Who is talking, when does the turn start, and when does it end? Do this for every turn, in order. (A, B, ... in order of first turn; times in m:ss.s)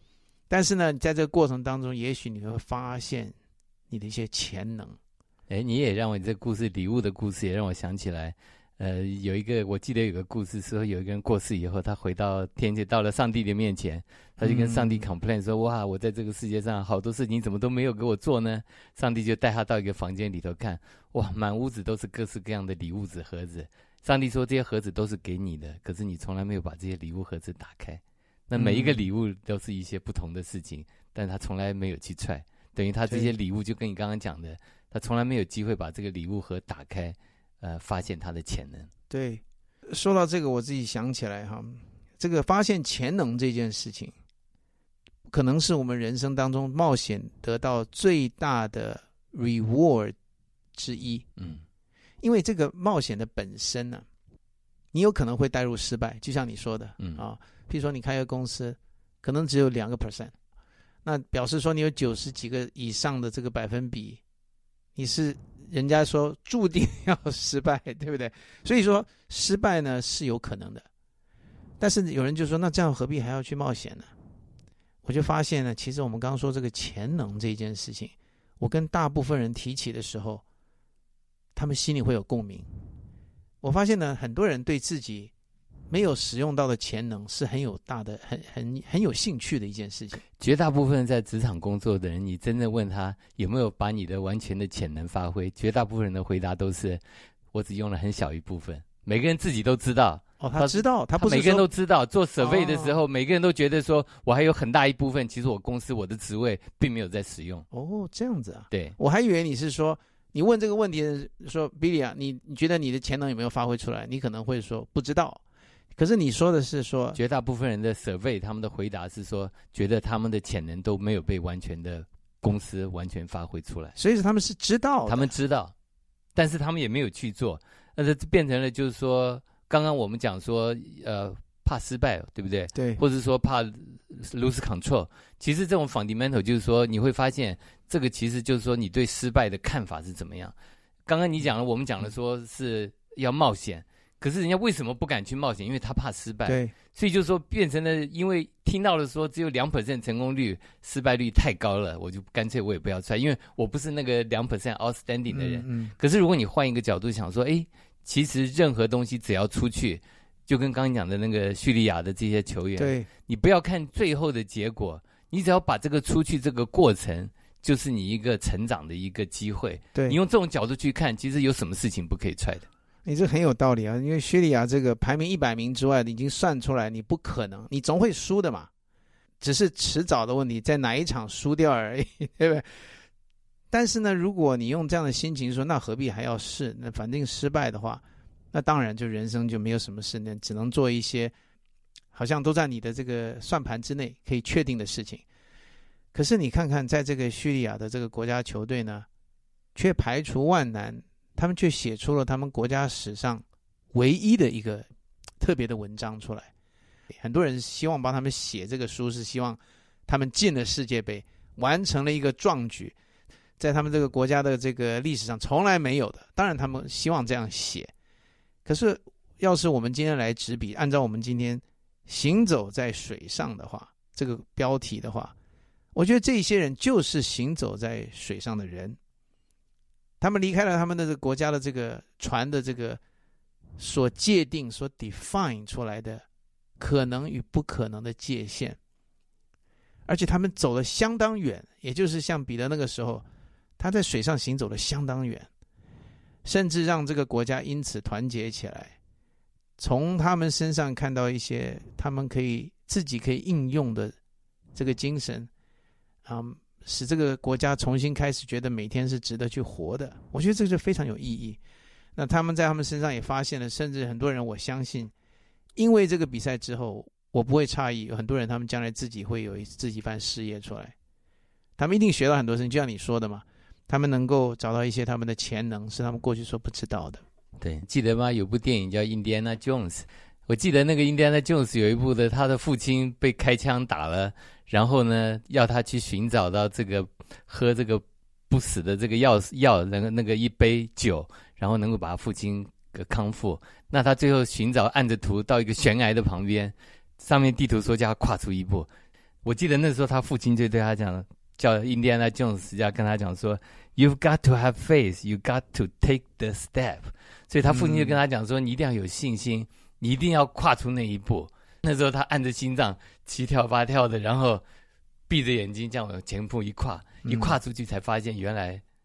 0:00.5-0:03.3 A
0:03.9-0:05.0 A
0:05.5-0:38.9 B
0:14.4-0:15.1 A
0:28.6-0:29.0 A
0:39.1-0:44.1 A
0:45.3-0:50.2 A
0:50.7-0:51.3 A
0:51.4-0:51.6 B
0:52.2-0:54.0 A
0:54.9-1:00.3 A
1:01.0-1:04.2 A
1:05.0-1:10.9 A
1:11.8-1:14.1 A
1:15.0-1:20.4 A
1:21.5-1:22.7 A
1:23.6-1:25.3 A
1:25.9-1:30.2 A
1:30.4-1:37.0 B
1:37.5-1:47.6 B
1:40.4-1:41.7 A
1:42.4-1:43.0 A
1:47.7-1:55.4 A
1:48.7-1:49.0 B
1:55.9-1:57.2 A
1:57.1-2:04.0 B
2:04.0-2:05.3 A
2:05.0-2:05.7 B
2:06.3-2:20.5 B
2:12.7-2:13.0 A
2:21.1-2:52.7 B
2:26.5-2:26.7 A
2:35.3-2:35.9 A
2:42.8-2:43.1 A
2:53.0-2:58.7 A
2:59.4-3:02.8 A
3:03.7-3:11.3 A
3:12.1-3:15.2 A
3:16.1-3:19.1 A
3:19.7-3:24.9 A
3:25.4-3:26.5 A
3:27.1-3:32.9 A
3:33.6-3:37.9 A
3:38.6-3:45.3 A
3:45.9-3:49.0 A
3:50.2-3:53.0 A
3:53.8-3:56.2 A
3:56.8-3:58.8 A
4:00.1-4:03.2 A
4:03.8-4:05.5 A
4:06.4-4:09.0 A
4:09.8-4:14.2 A
4:14.7-4:15.5 A
4:16.2-4:21.6 A
4:22.2-4:25.1 A
4:25.8-4:30.9 A
4:31.8-4:37.2 A
4:37.6-4:58.9 B
4:59.4-5:14.6 B
5:07.7-5:08.2 A
5:15.3-5:18.8 B
5:17.2-5:17.6 A